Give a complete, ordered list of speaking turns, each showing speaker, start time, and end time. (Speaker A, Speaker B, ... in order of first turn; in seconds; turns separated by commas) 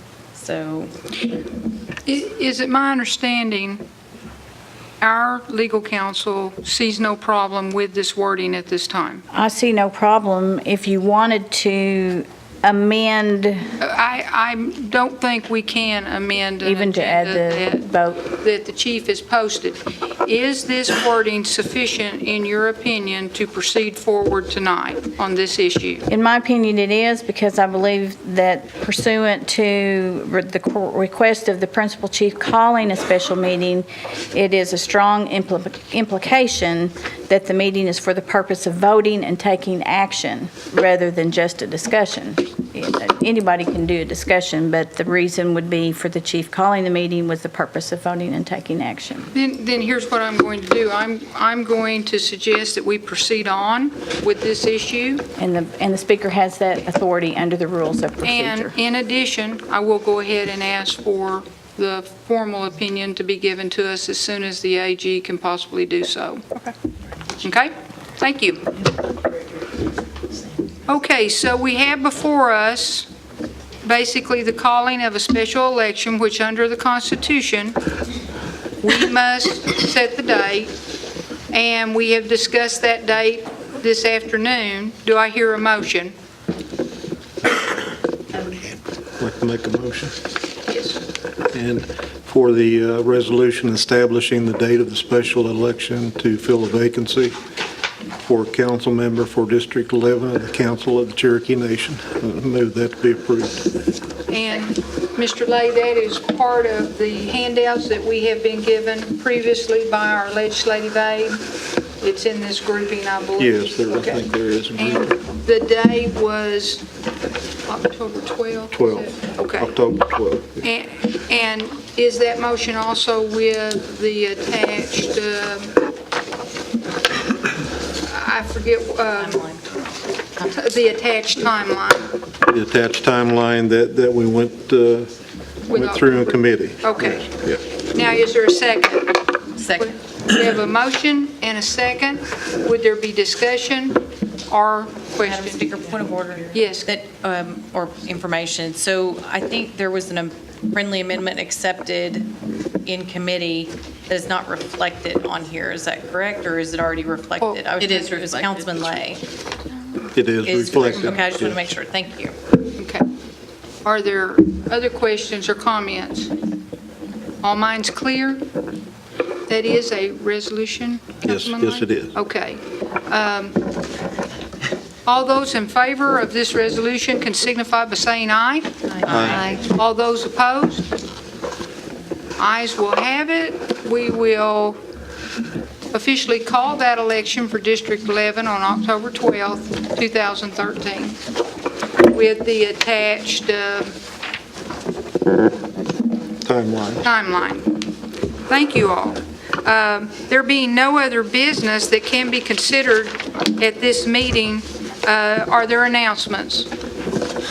Speaker A: 0.3-0.9, Speaker B: 2.1-3.8, Speaker B: 5.0-9.2, Speaker C: 9.3-13.7, Speaker B: 13.8-26.1, Speaker C: 16.6-18.3, Speaker C: 26.1-49.3, Speaker B: 49.3-55.2, Speaker C: 55.4-58.8, Speaker B: 58.2-66.7, Speaker B: 67.4-68.6, Speaker B: 70.9-73.1, Speaker B: 73.8-77.8, Speaker B: 78.8-80.7, Speaker B: 81.5-86.1, Speaker D: 89.2-90.2, Speaker B: 90.7-91.0, Speaker D: 91.5-97.4, Speaker D: 98.1-103.7, Speaker B: 104.3-111.4, Speaker B: 112.0-116.8, Speaker D: 113.4-115.1, Speaker B: 117.7-119.8, Speaker D: 118.7-120.6, Speaker B: 120.6-125.7, Speaker B: 128.0-129.6, Speaker A: 129.2-129.6, Speaker B: 130.4-132.2, Speaker D: 132.5-135.1, Speaker B: 135.7-137.2, Speaker D: 135.7-137.6, Speaker B: 137.9-139.2, Speaker A: 139.6-139.9, Speaker B: 139.8-145.8, Speaker A: 145.2-152.3, Speaker B: 146.5-146.9, Speaker A: 152.8-159.2, Speaker B: 157.4-158.8, Speaker D: 160.1-161.6, Speaker A: 160.4-162.3, Speaker B: 162.8-163.0, Speaker B: 163.8-166.3, Speaker B: 167.4-168.4, Speaker B: 169.5-173.6, Speaker D: 171.2-172.1, Speaker B: 175.1-180.9, Speaker A: 179.0-179.6, Speaker D: 179.1-179.5, Speaker B: 182.4-184.8, Speaker B: 185.9-191.2, Speaker B: 192.1-193.9, Speaker D: 196.4-197.1, Speaker B: 197.0-197.8, Speaker B: 198.5-206.7